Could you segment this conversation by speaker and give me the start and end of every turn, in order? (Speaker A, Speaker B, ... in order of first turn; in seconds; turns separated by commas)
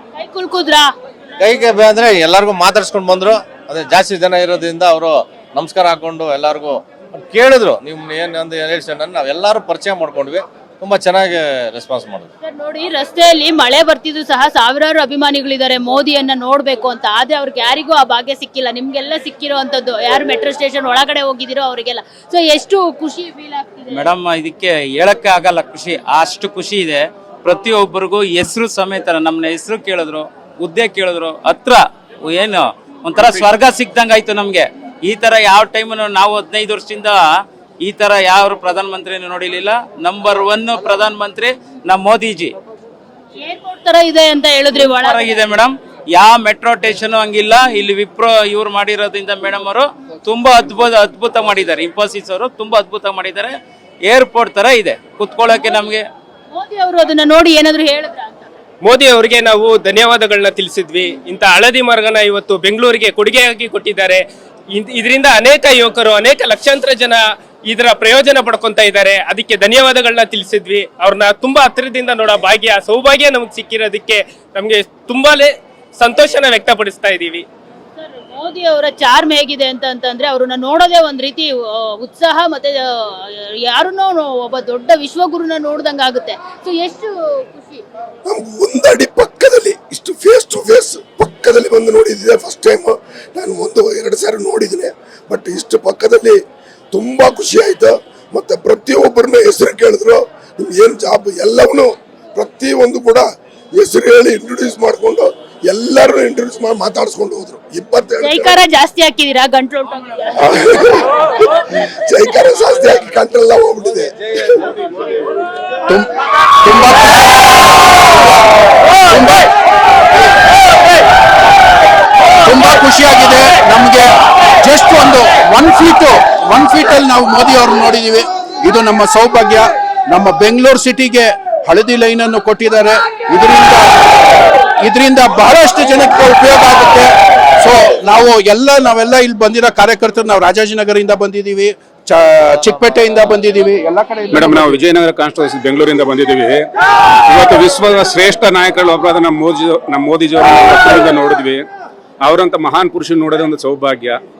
Speaker A: 0.2-0.9, Speaker B: 1.4-12.3, Speaker A: 12.4-24.1, Speaker C: 23.9-37.2, Speaker C: 37.8-42.5, Speaker A: 43.4-45.5, Speaker C: 44.9-56.0, Speaker A: 56.5-58.5, Speaker D: 58.8-77.5, Speaker A: 78.0-87.8, Speaker E: 88.2-96.4, Speaker E: 96.9-108.6, Speaker A: 108.2-110.5, Speaker E: 110.4-114.7, Speaker F: 116.6-117.3, Speaker F: 119.1-119.4, Speaker F: 122.4-124.1, Speaker F: 124.6-133.9, Speaker F: 134.8-144.8, Speaker G: 144.3-146.7, Speaker G: 147.3-151.6, Speaker G: 152.2-154.2